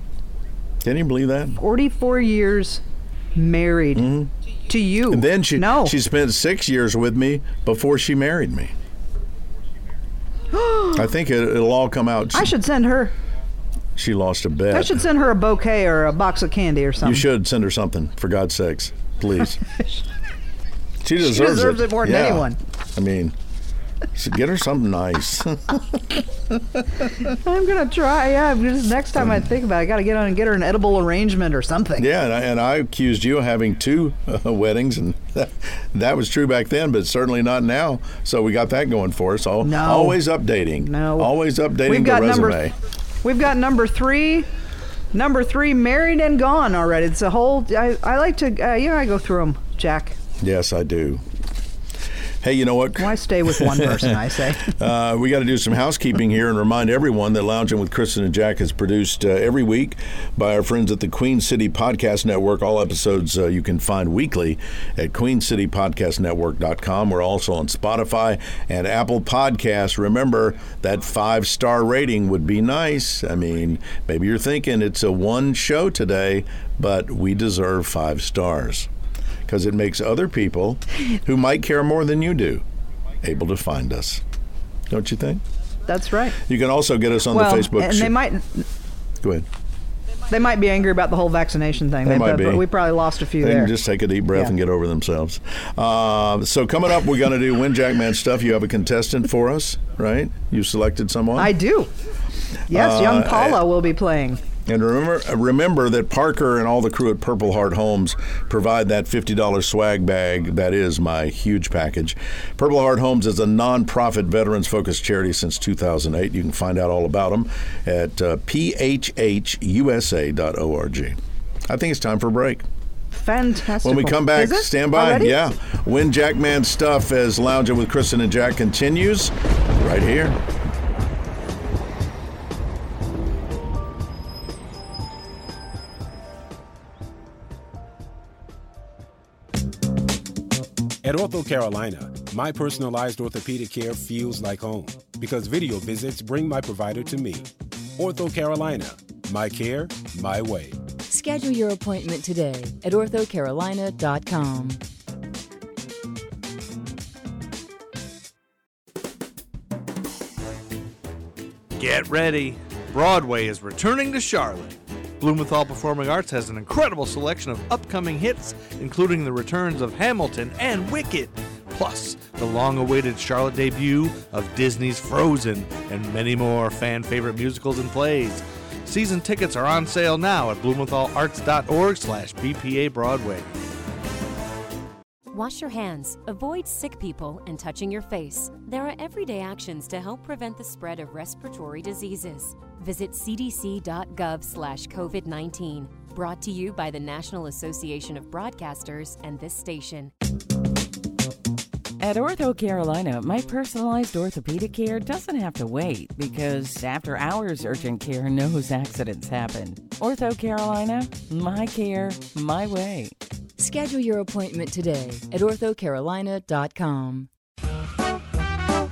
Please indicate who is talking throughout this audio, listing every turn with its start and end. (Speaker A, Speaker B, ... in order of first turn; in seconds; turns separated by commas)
Speaker A: 0.8-1.6, Speaker B: 1.6-2.8, Speaker B: 3.4-4.1, Speaker A: 4.0-4.3, Speaker B: 4.7-6.0, Speaker A: 5.1-8.7, Speaker B: 10.5-11.1, Speaker A: 10.9-12.5, Speaker B: 12.3-13.2, Speaker A: 14.0-15.0, Speaker B: 14.7-17.2, Speaker A: 17.0-19.6, Speaker A: 21.0-23.4, Speaker B: 21.2-22.6, Speaker A: 24.1-27.3, Speaker B: 27.3-32.1, Speaker A: 32.0-42.8, Speaker B: 39.6-40.3, Speaker B: 40.8-42.6, Speaker B: 43.2-44.5, Speaker B: 45.1-50.2, Speaker A: 50.4-51.2, Speaker A: 52.4-78.9, Speaker B: 53.0-54.7, Speaker A: 79.5-82.6, Speaker A: 83.2-84.2, Speaker A: 84.9-85.4, Speaker B: 85.9-86.4, Speaker A: 86.4-88.2, Speaker B: 87.3-88.7, Speaker A: 89.2-89.5, Speaker B: 90.3-93.7, Speaker A: 92.0-92.7, Speaker A: 93.4-101.5, Speaker B: 101.4-101.9, Speaker A: 102.7-103.6, Speaker B: 102.7-104.4, Speaker A: 104.7-122.7, Speaker B: 123.1-125.3, Speaker A: 123.8-130.4, Speaker C: 141.0-150.8, Speaker D: 151.1-154.8, Speaker E: 161.8-183.5, Speaker F: 185.3-200.1, Speaker G: 202.0-213.2, Speaker D: 213.6-217.3